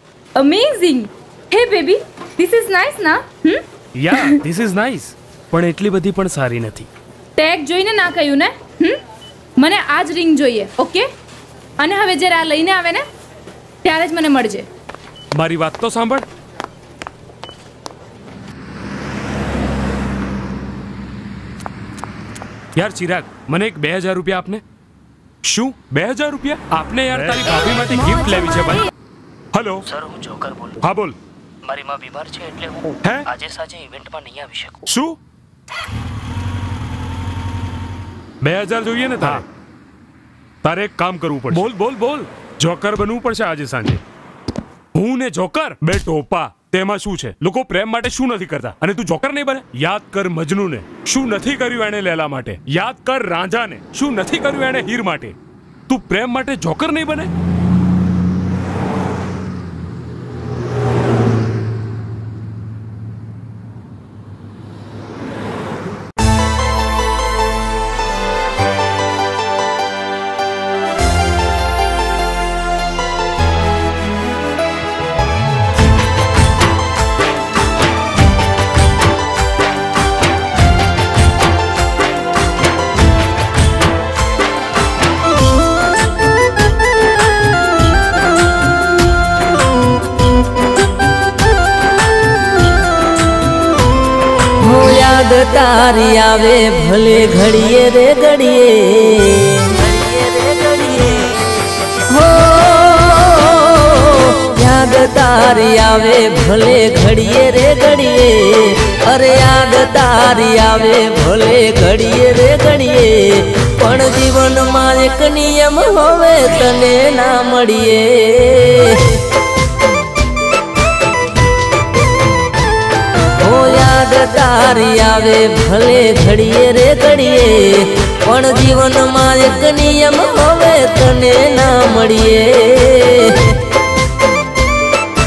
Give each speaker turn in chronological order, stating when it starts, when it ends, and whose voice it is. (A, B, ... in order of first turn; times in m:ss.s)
0:00.4-0:04.4 A
0:04.0-0:06.9 B
0:07.4-0:09.0 A
0:09.6-0:11.1 A
0:11.8-0:13.0 A
0:13.8-0:14.7 A
0:15.4-0:16.3 B
0:22.8-0:24.6 B
0:25.4-0:28.9 B
0:29.5-0:29.9 B
0:29.9-0:30.8 C
0:30.8-0:31.2 B
0:31.6-0:34.9 C
0:33.0-0:33.3 B
0:34.9-0:35.2 B
0:38.4-0:39.4 B
0:40.6-0:44.0 B
0:45.0-0:55.4 B
0:55.9-0:57.3 B
1:34.6-1:41.4 D
1:42.1-1:59.2 D
2:03.3-2:13.6 D